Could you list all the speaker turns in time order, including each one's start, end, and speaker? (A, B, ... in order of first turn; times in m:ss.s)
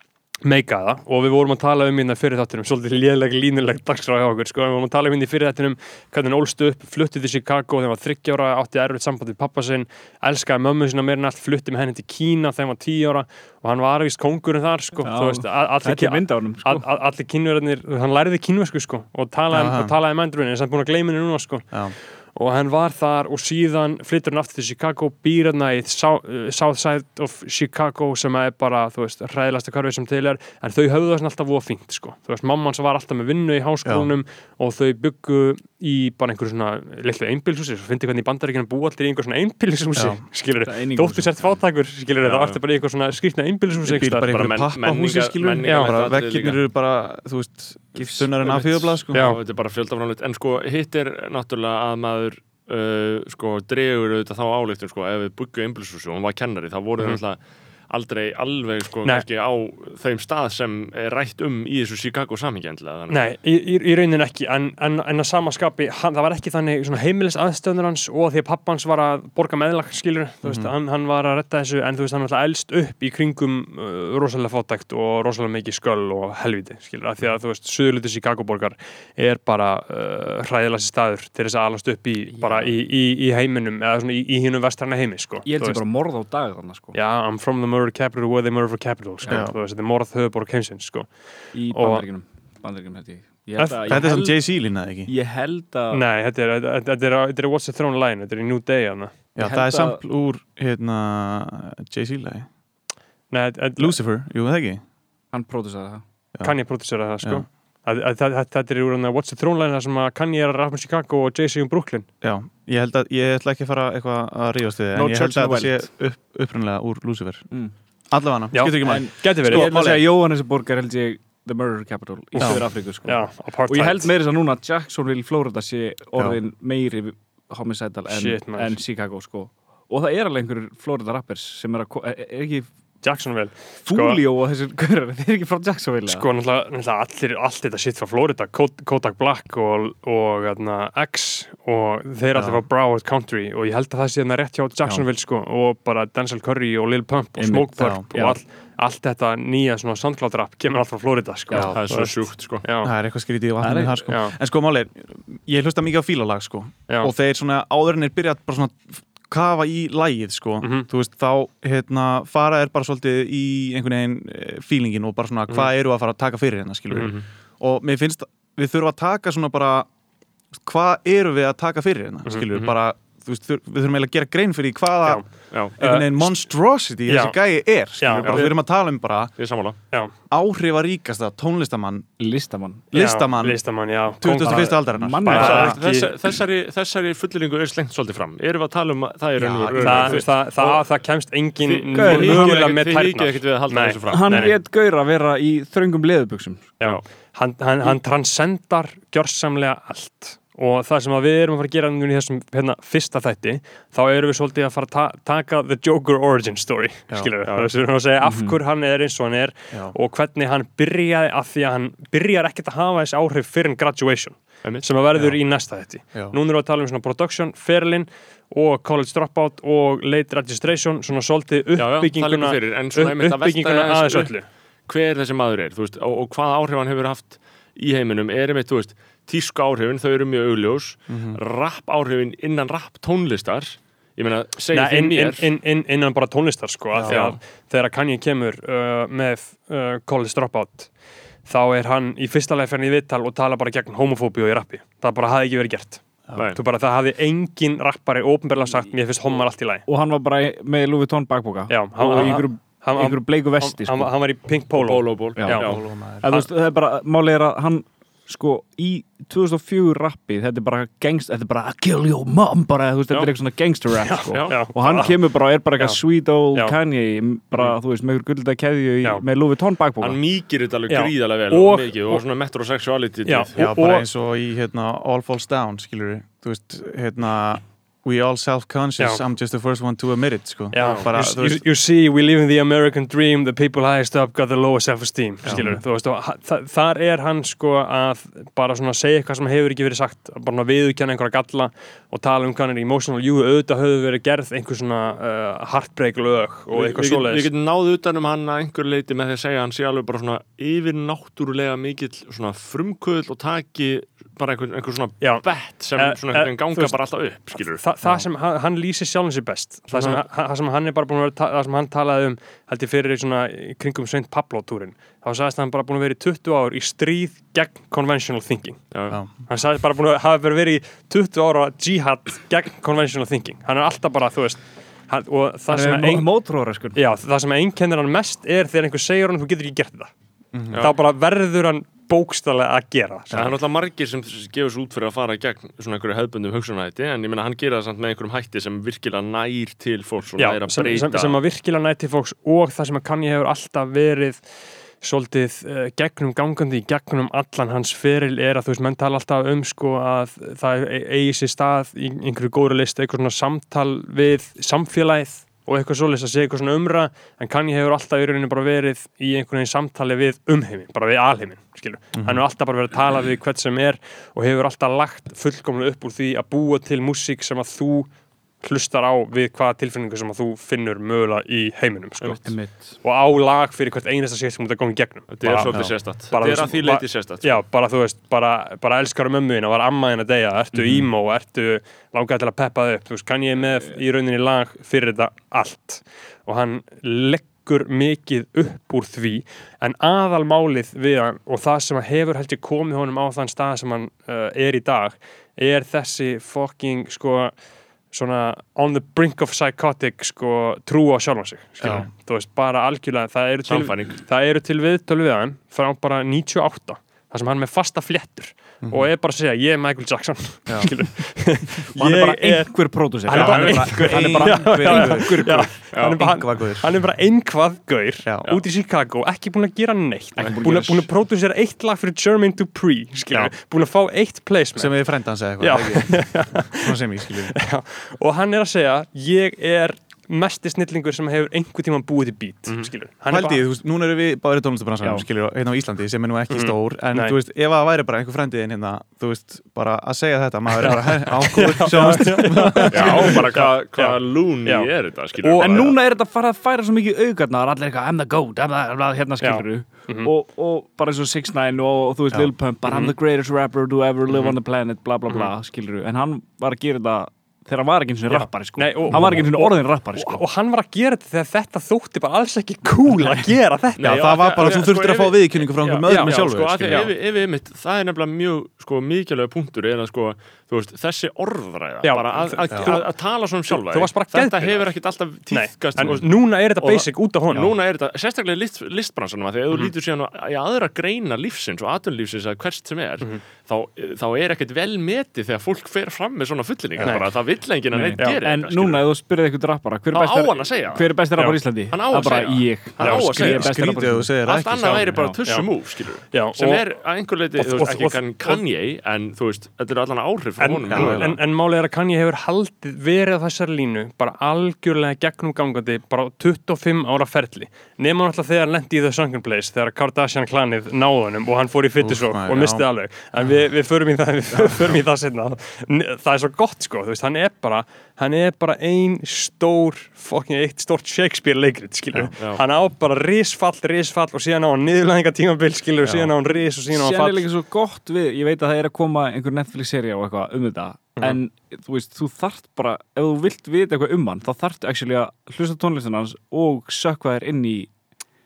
0:00.4-0:44.3 A
0:15.0-0:16.8 B
0:19.5-0:19.9 C
0:33.8-0:34.1 C
0:39.9-0:40.2 C
0:40.6-0:41.3 B
0:42.2-0:42.6 D
0:43.8-0:49.2 C
0:44.3-0:46.6 D
0:45.6-0:45.9 A
0:48.0-0:49.0 B
0:49.1-0:49.4 A
0:49.1-1:03.3 D
1:03.1-1:25.8 A
1:10.4-1:10.7 C
1:22.3-1:22.7 B
1:25.4-1:27.0 B
1:26.9-1:32.0 A
1:29.2-1:29.5 B
1:29.3-1:29.5 C
1:31.5-1:34.5 B
1:33.6-1:34.0 A
1:33.8-1:35.1 C
1:35.0-1:36.0 B
1:35.9-1:39.2 A
1:39.3-1:42.5 C
1:39.4-1:40.0 B
1:43.3-1:44.0 A
1:43.8-1:44.8 C
1:45.3-1:46.0 B
1:46.4-1:52.1 A
1:52.2-1:57.4 C
1:54.9-1:55.9 B
1:58.1-2:00.0 C
1:58.5-1:59.7 A
1:58.8-2:12.7 B
2:02.3-2:04.1 A
2:02.4-2:02.6 C
2:08.1-2:08.8 A
2:13.0-2:14.2 A
2:13.8-2:16.2 B
2:16.1-2:32.9 A
2:22.3-2:22.6 C
2:27.4-2:28.4 B
2:31.5-2:31.8 C
2:31.7-2:32.6 D
2:32.8-2:49.9 C
2:33.6-2:34.1 B
2:34.1-2:34.3 A
2:40.6-2:40.9 A
2:46.9-2:47.2 D
2:50.5-2:59.4 C
2:55.0-2:56.4 A
2:57.1-2:58.5 A
2:58.2-2:58.6 D
2:59.4-2:59.8 D
3:00.3-3:02.1 C
3:02.2-3:02.9 B
3:02.9-3:05.8 C
3:02.9-3:06.3 A
3:04.4-3:05.7 B
3:05.3-3:10.8 D
3:09.4-3:10.2 C
3:09.8-3:14.6 A
3:11.6-3:14.5 D
3:11.9-3:12.6 B
3:14.1-3:16.7 B
3:16.8-3:44.5 A
3:27.4-3:27.7 D
3:28.2-3:28.6 B
3:35.1-3:35.4 C
3:36.0-3:36.4 C
3:41.8-3:55.4 D
3:51.1-3:51.4 C
3:54.7-4:00.9 A
3:56.9-3:57.3 C
3:57.0-3:57.4 D
4:01.4-4:09.8 A
4:09.8-4:14.1 B
4:11.7-4:16.5 A
4:12.1-4:12.4 D
4:14.7-4:15.8 D
4:15.4-4:30.2 B
4:15.6-4:16.3 C
4:24.0-4:25.2 A
4:24.3-4:24.6 D
4:30.0-4:33.5 D
4:30.9-4:32.2 A
4:33.2-4:34.0 A
4:33.6-4:41.6 C
4:40.7-4:57.5 A
4:40.8-4:41.1 D
4:45.4-4:45.8 C
4:56.7-5:07.8 D
5:05.2-5:26.3 A
5:09.9-5:10.2 D
5:18.9-5:19.2 D
5:25.7-5:27.0 B
5:26.9-5:30.1 A
5:30.5-5:30.9 C
5:30.7-5:31.0 D
5:30.8-5:33.6 A
5:33.3-5:41.4 D
5:40.4-6:37.6 A
6:02.1-6:02.4 C
6:12.4-6:13.0 B
6:15.3-6:17.6 D
6:20.7-6:21.1 C
6:38.1-7:13.6 A
6:41.8-6:42.1 C
6:43.7-6:44.1 D
6:48.8-6:49.1 C
6:50.7-6:50.9 C
6:51.9-6:55.6 B
6:53.2-6:56.9 C
6:53.5-6:53.9 D
6:55.9-6:56.2 D
7:00.4-7:00.9 D
7:00.5-7:01.0 B
7:04.7-7:07.6 C
7:12.6-7:12.9 D
7:13.3-7:23.5 C
7:16.5-7:17.4 A
7:20.8-7:25.9 A
7:22.9-7:26.0 D
7:25.6-7:40.4 B
7:29.4-7:30.3 A
7:38.3-7:44.8 A
7:44.0-8:09.0 D
7:44.0-7:47.1 C
7:46.0-7:46.3 A
7:52.0-7:54.9 A
7:55.5-7:57.7 A
8:07.0-8:07.3 A
8:07.9-8:14.3 B
8:08.2-8:08.4 A
8:10.1-8:13.9 D
8:13.0-8:13.5 A
8:13.2-8:15.2 C
8:14.4-8:21.4 D
8:15.1-8:15.4 B
8:16.2-8:16.9 A
8:17.5-8:18.6 A
8:20.6-8:47.4 A
8:20.9-8:21.4 C
8:32.0-8:32.8 C
8:46.0-8:46.3 C
8:46.9-8:57.9 B